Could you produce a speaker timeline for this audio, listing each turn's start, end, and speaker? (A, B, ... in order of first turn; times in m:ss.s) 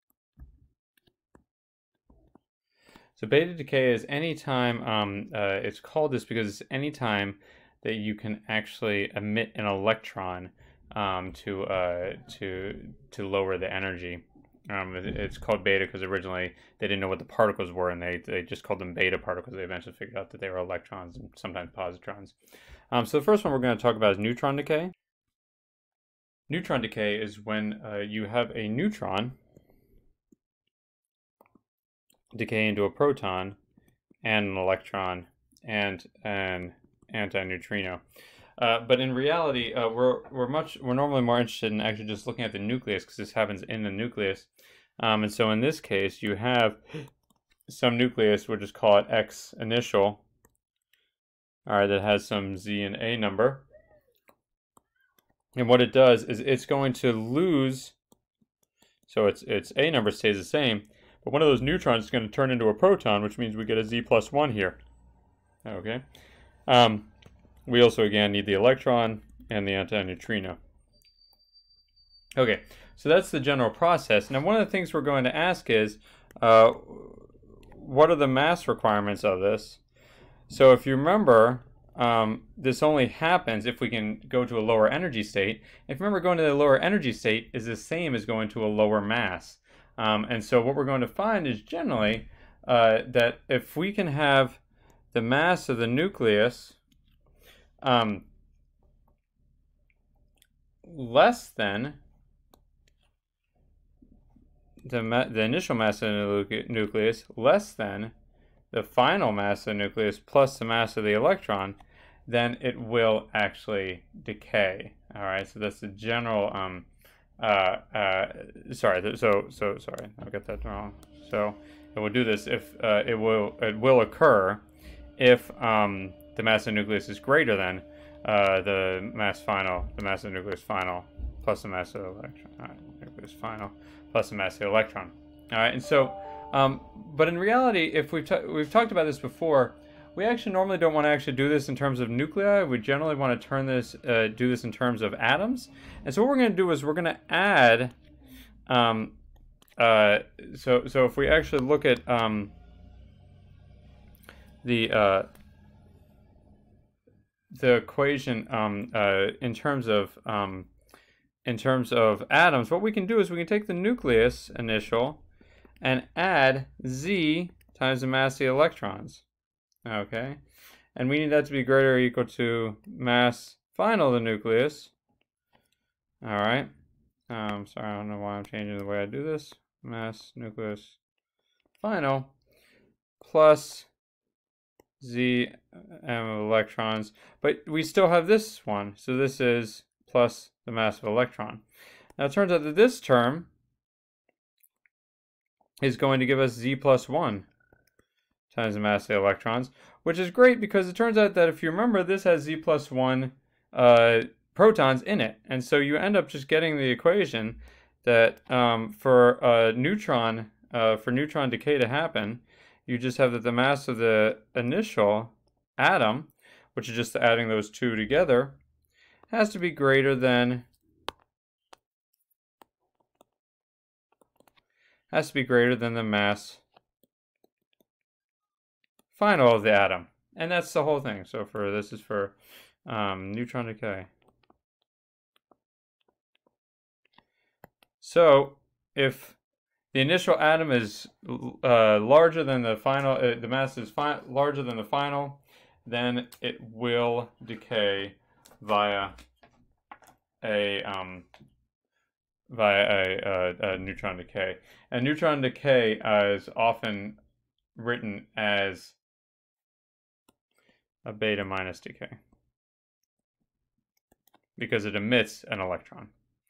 0:03.2-0:22.4 A
0:22.9-0:24.9 A
0:26.5-0:29.4 A
0:32.3-0:33.6 A
0:34.2-0:38.0 A
0:38.6-0:47.0 A
0:47.7-0:50.2 A
0:51.7-0:53.7 A
0:55.6-0:58.0 A
0:59.1-1:04.8 A
1:05.6-1:06.0 A
1:06.7-1:07.1 A
1:07.7-1:10.6 A
1:12.4-1:19.8 A
1:20.5-1:34.6 A
1:35.1-1:36.8 A
1:37.8-1:38.3 A
1:40.8-1:42.0 A
1:44.8-1:48.1 A
1:48.7-1:56.9 A
1:57.4-2:04.6 A
2:05.2-2:28.0 A
2:28.7-2:29.2 A
2:29.8-2:32.5 A
2:34.6-2:35.3 A
2:37.5-2:40.7 A
2:41.4-2:45.2 A
2:45.8-2:49.2 A
2:49.8-2:50.4 A
2:51.0-2:54.9 A
2:56.2-2:56.7 A
2:57.3-3:01.0 A
3:01.8-3:02.3 A
3:03.2-3:03.9 A
3:05.0-3:11.6 A
3:12.2-3:13.5 A
3:15.8-3:17.5 A
3:18.5-3:38.6 A
3:39.3-3:40.7 A
3:45.1-3:46.6 A
3:49.1-3:54.1 A
3:58.0-3:59.4 A
3:59.9-4:09.2 A
4:10.4-4:11.3 A
4:12.5-4:17.2 A
4:17.8-4:19.0 A
4:21.0-4:22.2 A
4:24.6-4:26.1 A